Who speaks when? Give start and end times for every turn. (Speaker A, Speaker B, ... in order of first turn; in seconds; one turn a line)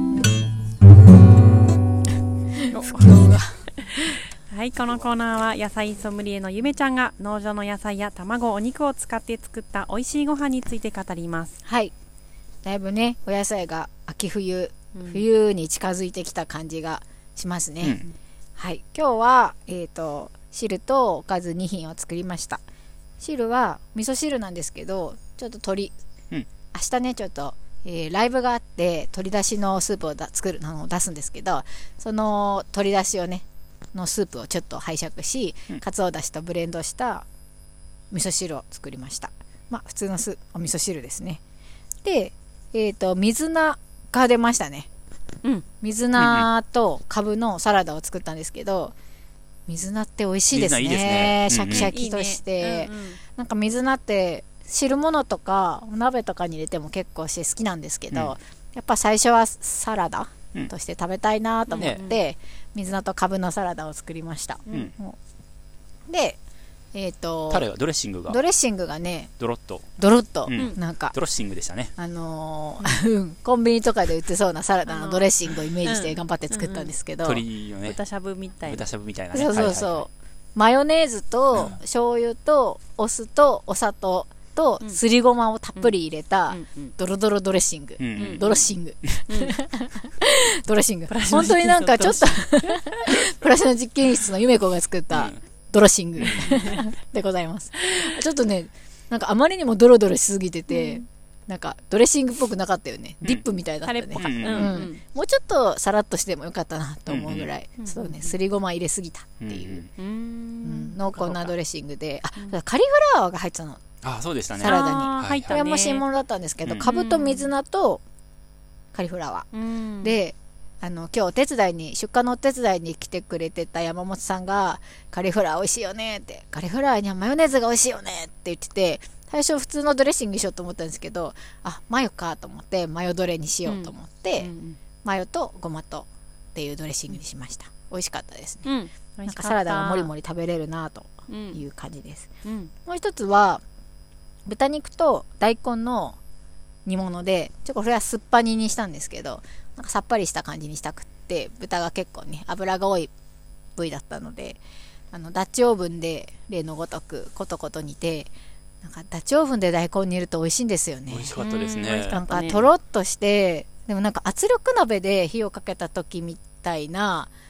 Speaker A: 0.1-0.5
Speaker A: 2.6-4.2
Speaker B: 2.7-3.2
Speaker B: 3.8-11.6
Speaker A: 11.7-11.9
Speaker A: 12.7-18.0
Speaker B: 15.0-15.2
Speaker A: 18.6-22.6
Speaker A: 23.2-25.9
Speaker A: 26.7-37.2
Speaker A: 38.1-41.4
Speaker A: 42.0-44.9
Speaker A: 45.8-49.0
Speaker C: 46.2-46.5
Speaker A: 49.7-65.2
Speaker C: 50.5-51.9
Speaker B: 51.7-53.2
Speaker B: 61.7-62.2
Speaker C: 61.8-62.0
Speaker B: 64.7-64.9
Speaker A: 66.1-66.4
Speaker A: 66.9-67.7
Speaker C: 67.5-68.4
Speaker A: 68.3-69.3
Speaker C: 69.4-69.9
Speaker A: 70.0-71.2
Speaker C: 70.5-72.0
Speaker A: 72.0-77.4
Speaker B: 74.9-76.9
Speaker C: 77.2-78.0
Speaker B: 77.8-78.9
Speaker C: 78.7-80.1
Speaker A: 79.3-109.8
Speaker B: 86.5-86.9
Speaker C: 88.0-88.4
Speaker B: 88.2-88.6
Speaker B: 89.3-89.5
Speaker B: 91.1-93.0
Speaker C: 95.1-95.4
Speaker C: 96.2-96.6
Speaker B: 96.3-96.8
Speaker B: 100.7-101.0
Speaker B: 103.8-105.0
Speaker C: 104.2-104.8
Speaker C: 107.1-107.5
Speaker B: 107.8-108.3
Speaker C: 109.4-109.9
Speaker B: 110.0-111.0
Speaker A: 110.6-113.8
Speaker C: 114.0-115.6
Speaker A: 114.6-118.0
Speaker B: 114.6-116.0
Speaker B: 116.8-117.5
Speaker A: 118.9-119.5
Speaker B: 119.5-120.2
Speaker A: 120.0-134.5
Speaker B: 133.7-134.8
Speaker A: 135.0-138.7
Speaker B: 138.7-140.1
Speaker A: 139.3-142.3
Speaker B: 141.3-141.6
Speaker B: 142.4-142.7
Speaker A: 142.9-143.6
Speaker A: 144.5-146.2
Speaker A: 146.9-153.1
Speaker A: 153.8-154.6
Speaker A: 155.1-158.3
Speaker A: 158.8-161.4
Speaker C: 161.1-162.2
Speaker B: 161.4-162.7
Speaker A: 162.1-167.3